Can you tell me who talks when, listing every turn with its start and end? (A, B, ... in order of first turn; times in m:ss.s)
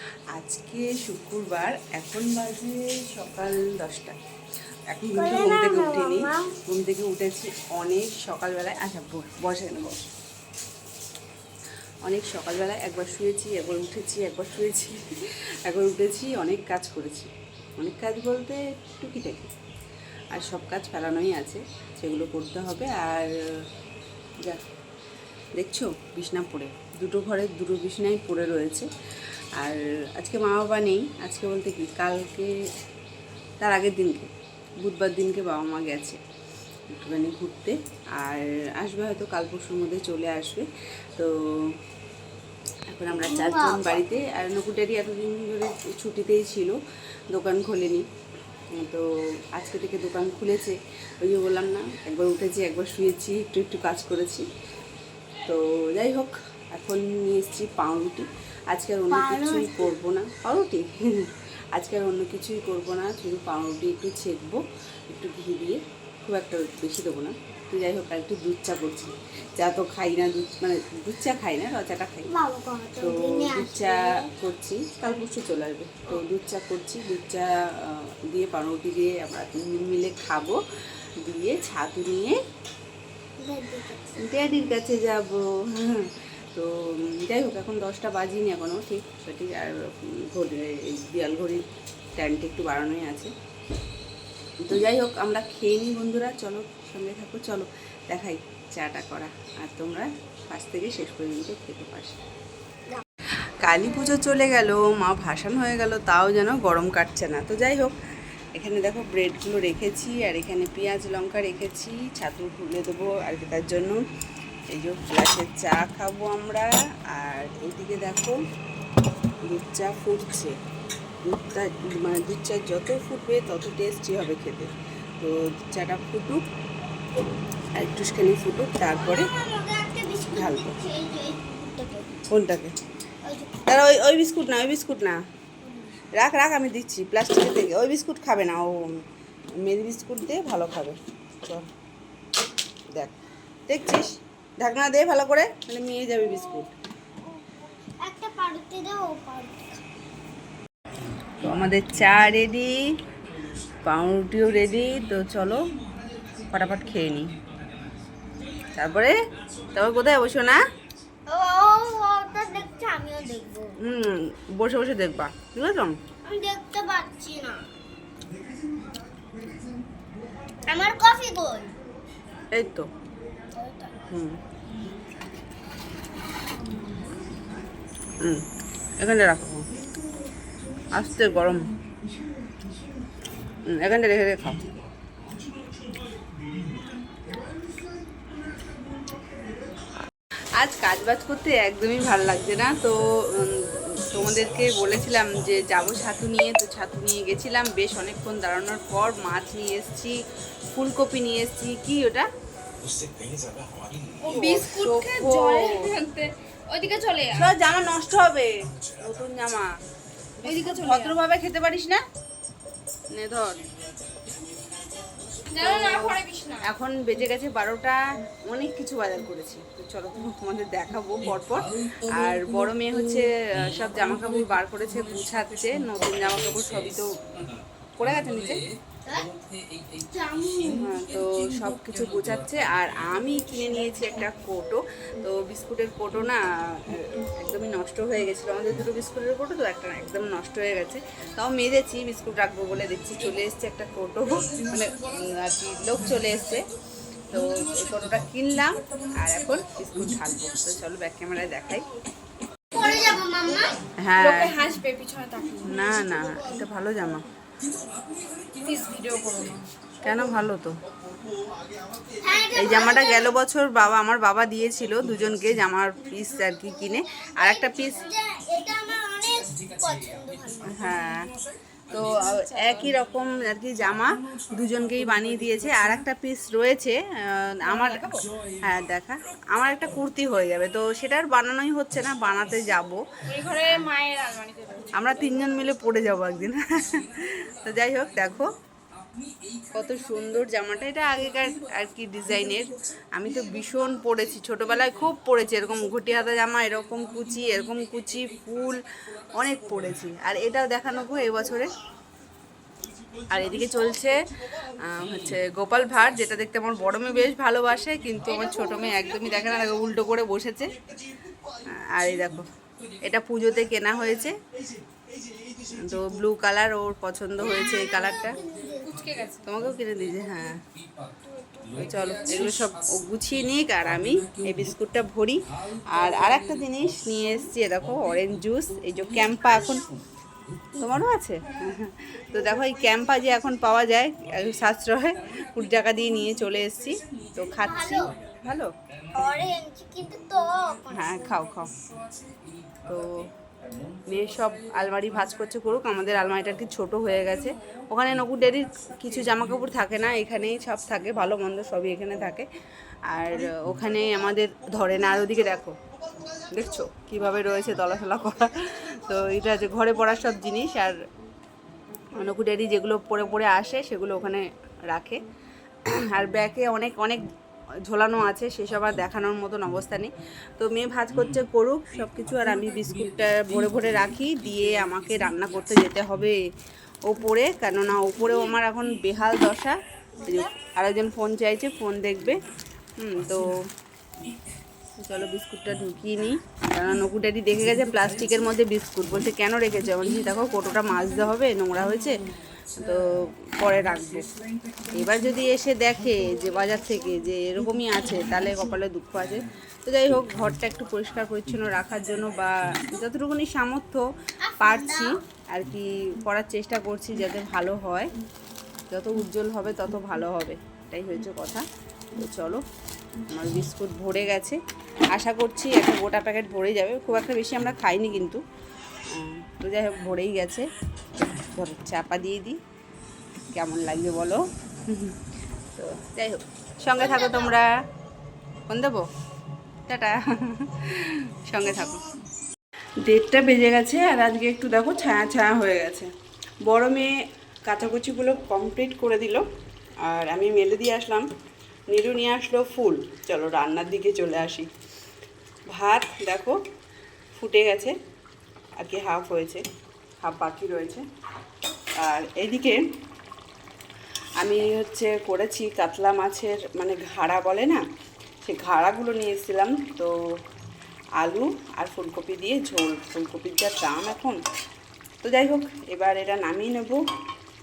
0:00.3-0:04.2 A
0:04.9-0:10.0 A
0:05.2-0:06.5 B
0:12.0-0:15.0 A
0:15.6-0:19.5 A
0:20.3-0:23.3 A
0:25.6-0:28.9 A
0:29.6-0:32.5 A
0:33.6-0:36.2 A
0:36.9-0:41.8 A
0:42.9-0:46.8 A
0:43.1-0:44.0 B
0:47.3-0:48.1 A
0:48.8-0:54.5 A
0:55.5-1:12.3 A
0:59.1-0:59.9 B
1:12.3-1:14.3 B
1:13.0-1:20.6 A
1:21.2-1:22.4 A
1:23.4-1:24.3 B
1:24.2-1:31.6 A
1:32.2-1:33.3 A
1:34.6-1:42.2 A
1:43.6-1:48.0 A
1:48.6-1:54.0 A
1:54.7-1:58.4 A
1:59.5-2:00.6 A
2:01.2-2:06.4 A
2:07.8-2:09.3 A
2:08.9-2:12.1 B
2:10.3-2:10.8 A
2:12.3-2:12.7 A
2:13.2-2:13.6 B
2:13.7-2:15.2 A
2:15.6-2:16.0 B
2:16.2-2:19.0 A
2:19.6-2:21.7 A
2:23.7-2:26.7 A
2:26.2-2:26.7 B
2:27.2-2:27.5 B
2:28.0-2:29.8 B
2:31.4-2:32.8 A
2:33.8-2:35.6 A
2:36.5-2:37.4 A
2:38.8-2:39.2 A
2:39.7-2:40.6 A
2:41.3-2:43.8 B
2:43.8-2:46.0 A
2:46.2-2:47.6 B
2:50.7-2:51.8 B
2:52.5-2:52.9 A
2:53.5-2:54.0 B
2:54.0-2:54.4 A
2:59.0-2:59.6 A
3:00.9-3:01.7 A
3:03.6-3:04.7 A
3:10.6-3:20.2 A
3:20.7-3:22.3 A
3:24.2-3:27.5 C
3:24.3-3:25.9 A
3:27.4-3:29.7 A
3:30.4-3:31.2 C
3:30.4-3:32.0 A
3:33.1-3:33.6 A
3:35.5-3:36.7 C
3:35.6-3:48.6 A
3:49.1-3:49.3 B
3:50.1-3:50.9 B
3:50.7-4:06.7 A
4:07.3-4:11.9 A
4:12.7-4:13.8 B
4:14.0-4:14.6 A
4:14.2-4:16.1 C
4:15.6-4:17.3 A
4:18.6-4:19.7 C
4:20.0-4:20.7 A
4:22.2-4:23.4 B
4:22.5-4:28.1 A
4:27.4-4:30.9 B
4:30.7-4:31.3 A
4:31.9-4:43.0 A
4:32.3-4:32.9 C
4:37.7-4:38.2 C
4:43.3-4:45.5 C
4:43.5-4:43.8 A
4:44.9-4:48.5 A
4:49.7-4:58.8 A
4:59.4-5:01.7 A
5:03.3-5:10.8 A
5:08.3-5:09.7 C
5:11.7-5:12.5 A
5:13.0-5:14.4 A
5:15.7-5:18.4 A
5:17.4-5:19.1 B
5:18.8-5:19.4 C
5:19.4-5:20.6 A
5:21.2-5:22.5 B
5:21.8-5:29.9 A
5:30.8-5:38.7 A
5:37.6-5:38.1 B
5:39.1-5:41.1 B
5:40.9-5:41.8 A
5:42.8-5:43.3 A
5:44.1-5:52.5 A
5:53.1-5:55.8 A
5:56.5-6:01.0 A
6:02.2-6:05.2 A
6:05.9-6:07.2 A
6:07.9-6:16.4 A
6:17.1-6:22.4 A
6:20.2-6:20.5 B
6:23.0-6:23.6 A
6:25.0-6:34.3 A
6:34.9-6:44.1 A
6:44.4-6:45.1 B
6:44.6-6:48.1 A
6:48.9-6:52.6 A
6:53.3-6:54.6 A
6:55.1-6:58.4 A
6:59.1-7:00.7 A
7:01.2-7:02.6 A
7:03.5-7:05.2 A
7:05.8-7:07.7 A
7:07.0-7:07.6 B
7:08.7-7:09.0 A
7:09.9-7:12.0 A
7:13.0-7:16.1 A
7:16.7-7:17.1 A
7:17.7-7:19.4 A
7:20.0-7:21.3 A
7:21.9-7:24.7 A
7:25.7-7:26.6 A
7:27.3-7:28.0 A
7:28.8-7:29.6 A
7:30.2-7:31.0 A
7:32.0-7:32.8 A
7:34.4-7:37.8 A
7:38.4-7:40.1 A
7:41.2-7:44.4 A
7:45.2-7:47.0 A